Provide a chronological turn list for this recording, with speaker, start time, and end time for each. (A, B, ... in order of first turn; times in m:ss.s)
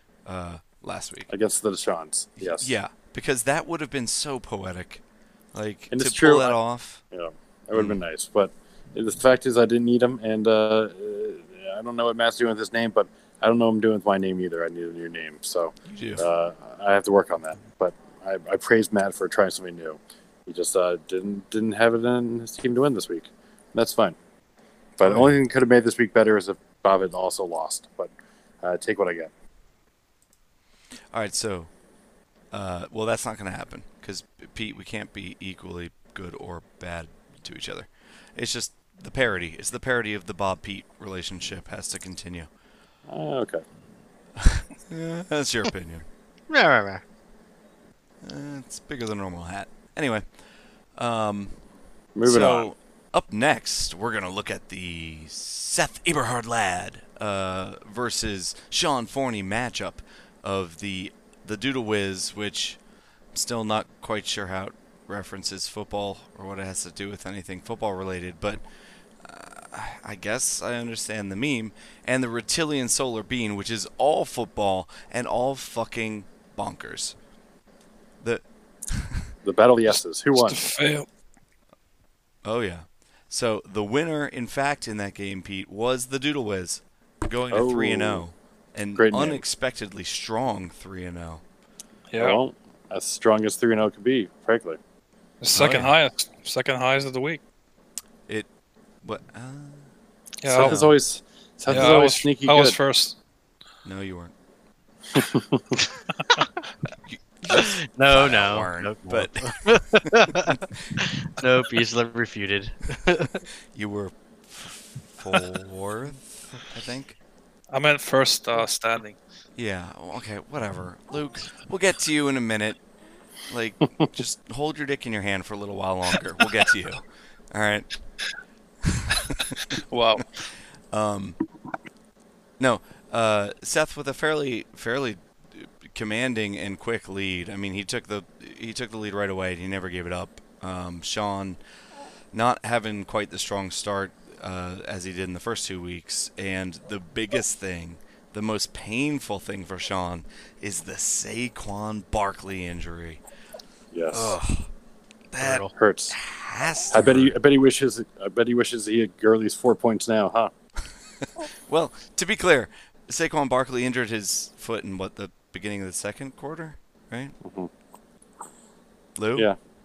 0:00.3-0:01.3 A
0:01.3-0:02.8 B
0:02.6-0:05.0 A
0:05.5-0:07.0 A
0:05.9-0:06.6 B
0:07.1-0:24.2 B
0:07.8-0:08.0 A
0:15.8-0:16.3 A
0:25.0-0:29.3 B
0:25.0-0:25.4 A
0:31.1-0:31.7 A
0:32.5-0:42.5 A
0:43.1-0:43.6 B
0:44.4-0:46.1 A
0:46.5-0:47.0 C
0:48.2-0:50.3 A
0:51.0-0:51.6 A
0:52.2-0:52.7 B
0:52.2-1:02.8 A
1:03.3-1:08.6 A
1:09.2-1:17.2 A
1:18.2-1:19.3 A
1:19.4-1:20.6 B
1:20.4-1:21.1 D
1:22.4-1:31.4 A
1:27.5-1:28.2 B
1:29.0-1:29.4 B
1:32.1-1:32.4 D
1:32.2-1:34.8 B
1:35.4-1:37.4 D
1:35.5-1:36.0 A
1:39.0-1:39.9 A
1:40.4-1:40.8 D
1:40.5-1:42.8 B
1:40.6-1:41.0 A
1:41.7-1:43.2 D
1:43.8-1:44.3 A
1:45.1-1:45.7 B
1:47.1-1:50.8 A
1:47.5-1:53.4 C
1:53.7-1:57.2 A
1:57.7-1:59.2 D
1:59.6-2:02.8 A
2:03.5-2:07.9 A
2:08.8-2:09.6 A
2:09.6-2:10.3 D
2:10.9-2:11.4 A
2:12.6-2:21.6 A
2:22.3-2:33.2 A
2:33.9-2:34.4 B
2:34.1-2:34.7 A
2:35.3-2:37.4 A
2:35.4-2:35.7 C
2:35.7-2:36.2 B
2:36.9-2:40.5 B
2:41.7-2:47.4 A
2:47.4-2:47.7 B
2:49.2-2:49.5 A